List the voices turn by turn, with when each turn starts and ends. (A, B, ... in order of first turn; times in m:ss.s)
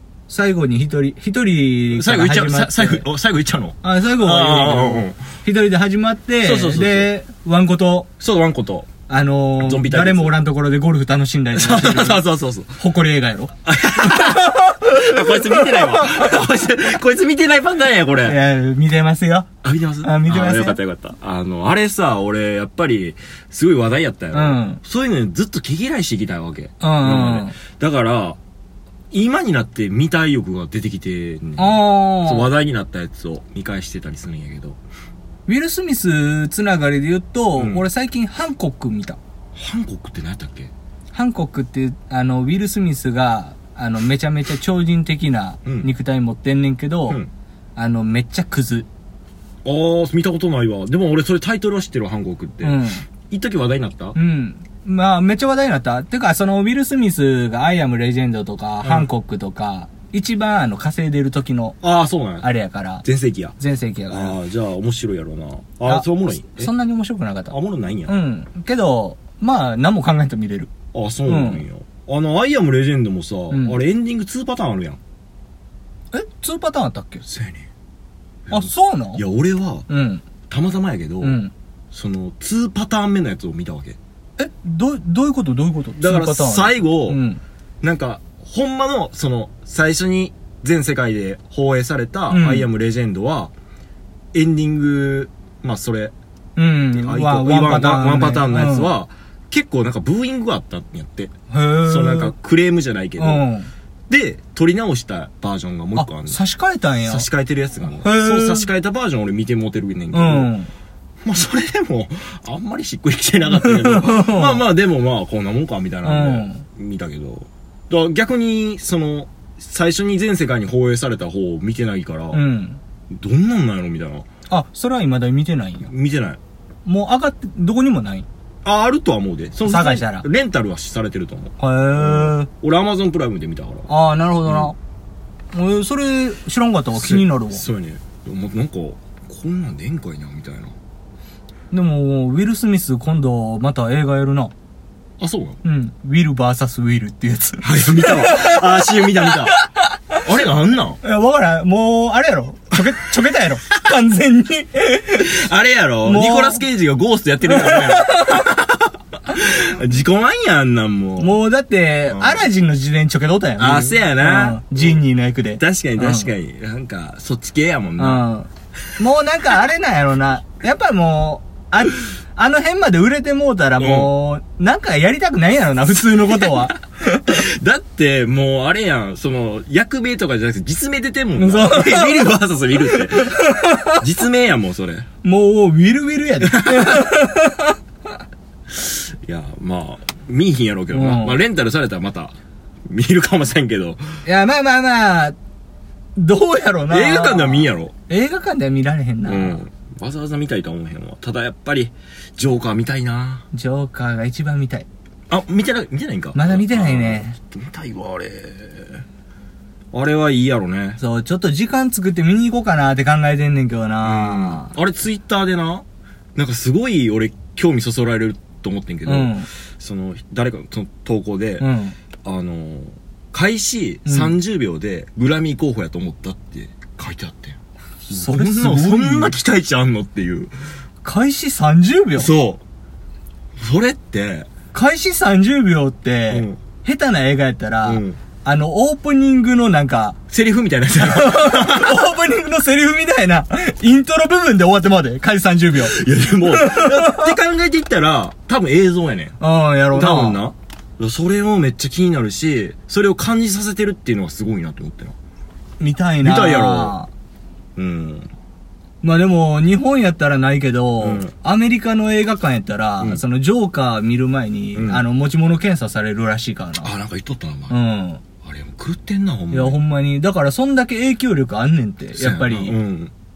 0:00.3-0:03.0 A
0:01.9-0:05.2 B
0:03.8-0:08.1 A
0:06.4-0:07.1 B
0:08.2-0:08.9 B
0:09.1-0:12.2 A
0:09.6-0:10.4 B
0:11.6-0:12.8 B
0:12.8-0:16.2 A
0:13.7-0:18.4 B
0:18.2-0:19.5 A
0:19.6-0:28.4 B
0:20.0-0:20.8 A
0:24.3-0:24.8 A
0:26.8-0:27.6 A
0:29.1-0:34.8 B
0:31.6-0:32.5 A
0:35.5-0:39.2 A
0:37.6-0:37.8 B
0:39.6-0:40.7 B
0:41.1-0:47.2 A
0:47.8-0:48.9 A
0:49.6-0:54.2 B
0:52.6-0:53.0 A
0:54.2-1:01.8 A
1:01.8-1:02.5 B
1:02.4-1:03.0 A
1:03.0-1:03.6 B
1:03.6-1:04.4 A
1:04.1-1:06.7 B
1:05.9-1:07.6 A
1:07.5-1:08.1 B
1:08.1-1:10.7 A
1:10.9-1:15.0 B
1:11.3-1:11.6 A
1:13.5-1:13.8 A
1:16.1-1:17.3 A
1:17.3-1:17.7 B
1:18.5-1:19.9 B
1:18.5-1:19.2 A
1:19.9-1:20.2 A
1:20.5-1:21.4 B
1:21.2-1:21.5 A
1:21.9-1:24.0 B
1:24.4-1:27.4 A
1:26.0-1:27.2 B
1:27.8-1:33.5 B
1:32.3-1:32.7 A
1:34.3-1:36.1 B
1:36.6-1:38.9 A
1:36.9-1:41.3 B
1:41.5-1:42.3 A
1:41.8-1:43.5 B
1:43.2-1:43.7 A
1:44.1-1:46.4 B
1:46.0-1:47.3 A
1:47.0-1:50.5 B
1:48.0-1:48.7 A
1:50.1-1:50.7 A
1:51.2-2:02.4 B
1:53.5-1:54.6 A
1:56.0-1:56.6 A
2:02.3-2:02.8 A
2:03.1-2:04.3 B
2:04.5-2:05.9 A
2:05.8-2:06.4 B
2:06.9-2:08.3 A
2:08.6-2:13.9 B
2:09.6-2:10.3 A
2:11.6-2:12.5 A
2:13.9-2:14.8 A
2:14.5-2:14.7 B
2:15.5-2:17.6 A
2:17.0-2:20.8 B
2:21.7-2:24.5 A
2:25.2-2:25.6 B
2:25.6-2:30.2 A
2:27.6-2:29.6 B
2:30.2-2:31.0 B
2:31.0-2:35.3 A
2:35.2-2:41.4 B
2:36.0-2:36.6 A
2:37.5-2:38.4 A
2:41.2-2:46.3 A
2:42.1-2:42.5 B
2:43.6-2:45.0 B
2:45.6-2:48.3 B
2:48.0-2:57.3 A
2:53.8-2:54.1 B
2:56.0-2:56.7 B
2:57.3-3:05.1 B
3:01.4-3:04.0 A
3:05.2-3:07.8 A
3:06.4-3:07.1 B
3:08.8-3:12.4 B
3:10.9-3:11.4 A
3:12.9-3:14.1 B
3:14.2-3:15.4 A
3:16.2-3:19.6 A
3:16.9-3:17.9 B
3:19.3-3:23.5 B
3:23.5-3:24.9 A
3:25.3-3:29.0 B
3:26.3-3:27.4 A
3:29.9-3:31.0 B
3:31.0-3:34.7 A
3:34.0-3:35.8 B
3:36.4-3:41.7 B
3:39.1-3:39.5 A
3:41.6-3:42.0 A
3:42.2-3:47.6 B
3:44.1-3:44.4 A
3:48.1-3:49.4 A
3:48.1-3:50.5 B
3:51.0-3:52.3 A
3:52.2-3:52.6 B
3:53.6-3:54.5 B
3:54.7-4:00.2 A
3:56.3-3:56.6 B
3:57.8-3:58.2 B
4:00.3-4:02.1 B
4:01.0-4:07.3 A
4:05.8-4:09.4 B
4:09.4-4:10.4 A
4:09.9-4:15.2 B
4:15.8-4:17.1 A
4:16.2-4:17.0 B
4:17.8-4:18.3 B
4:19.0-4:26.9 A
4:21.0-4:21.3 B
4:24.8-4:25.0 B
4:26.8-4:27.8 B
4:27.7-4:28.2 A
4:28.4-4:29.8 B
4:29.5-4:32.8 A
4:32.2-4:33.1 B